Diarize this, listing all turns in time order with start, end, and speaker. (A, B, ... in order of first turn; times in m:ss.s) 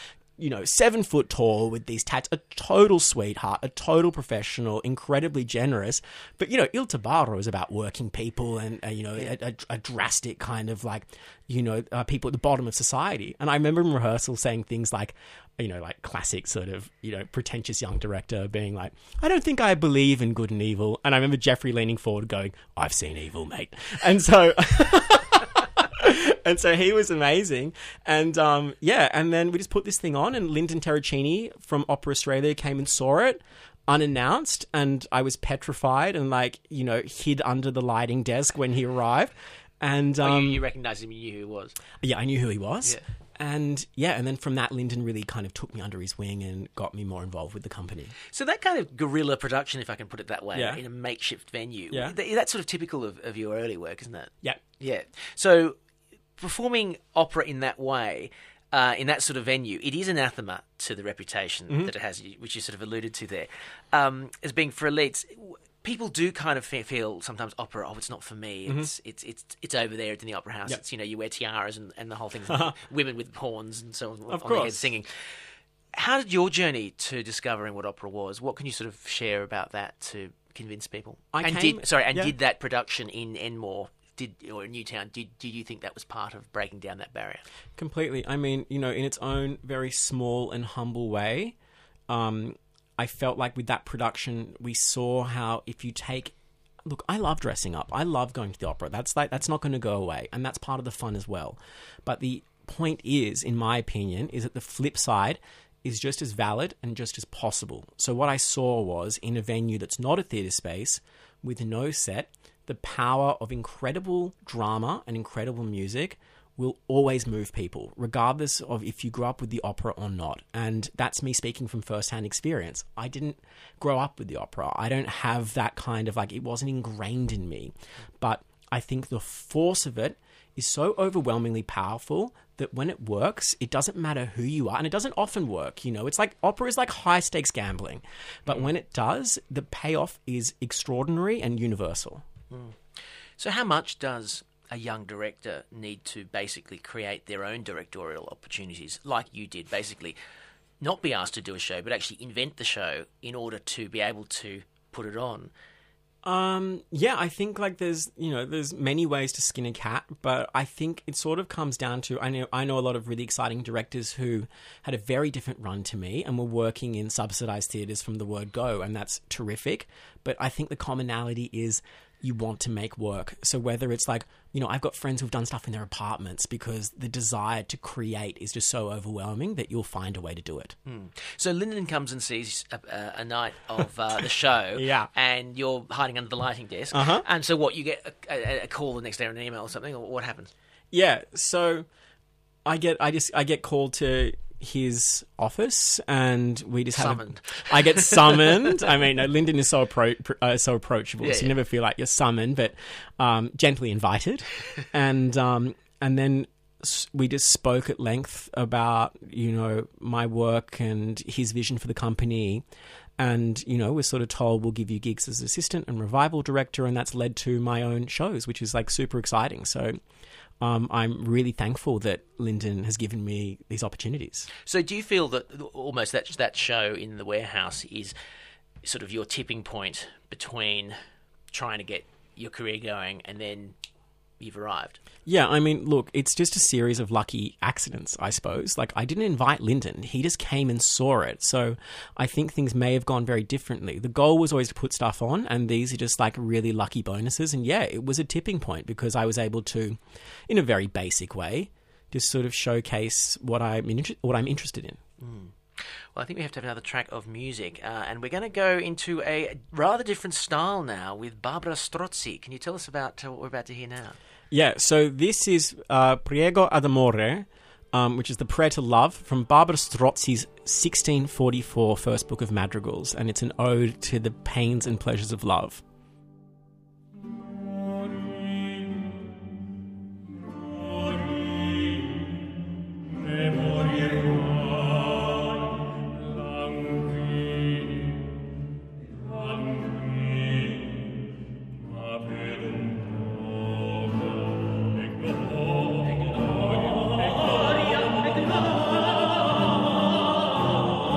0:00.4-0:40.6 A
0:40.2-0:41.8 B
0:42.0-0:48.1 A
0:48.3-0:55.8 B
0:50.5-0:50.8 A
0:51.9-0:52.2 A
0:56.4-1:15.1 B
1:12.5-1:12.7 A
1:14.3-1:14.9 A
1:15.9-1:27.4 B
1:21.3-1:22.3 A
1:27.8-1:31.6 A
1:32.1-1:36.4 A
1:36.9-2:22.2 A
2:22.5-2:22.8 B
2:23.4-2:30.2 B
2:30.8-2:35.5 B
2:36.2-3:00.7 A
3:00.9-3:10.5 B
3:04.7-3:05.1 A
3:06.9-3:07.2 A
3:10.9-3:11.9 A
3:12.6-3:32.6 A
3:16.9-3:18.8 B
3:21.2-3:21.6 B
3:33.2-3:40.0 A
3:40.6-3:44.5 A
3:44.6-3:48.1 B
3:48.8-3:51.0 B
3:51.5-3:53.8 B
3:54.4-3:55.0 B
3:55.3-4:15.0 A
4:15.2-4:24.2 B
4:24.5-4:35.8 A